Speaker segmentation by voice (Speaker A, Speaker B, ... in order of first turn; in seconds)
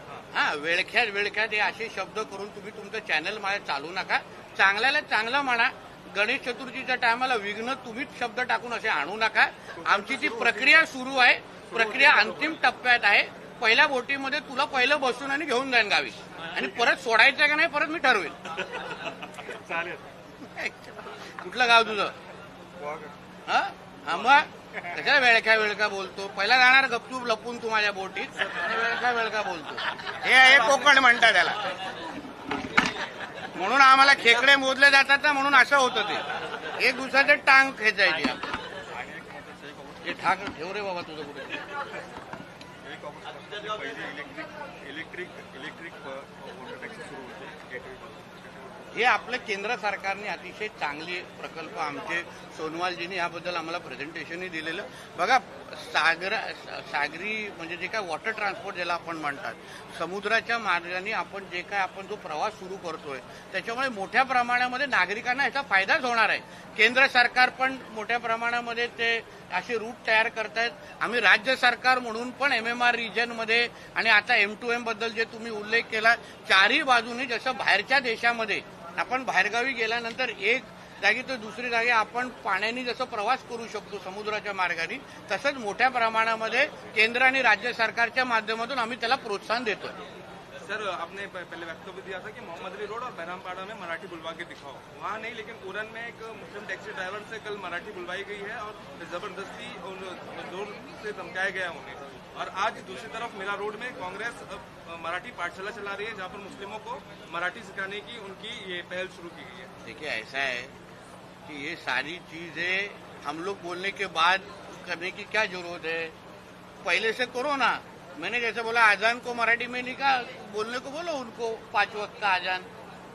Speaker A: 0.3-18.4, 20.4-22.1, 23.5-31.6, 33.5-36.2, 36.8-38.5, 40.0-41.7, 48.9-90.0, 109.8-110.7, 111.5-116.1, 116.8-122.7
Speaker B: 9.8-10.7, 11.7-12.3, 19.3-20.0, 22.8-23.1, 38.9-40.2, 42.8-48.9
Speaker C: 90.6-109.7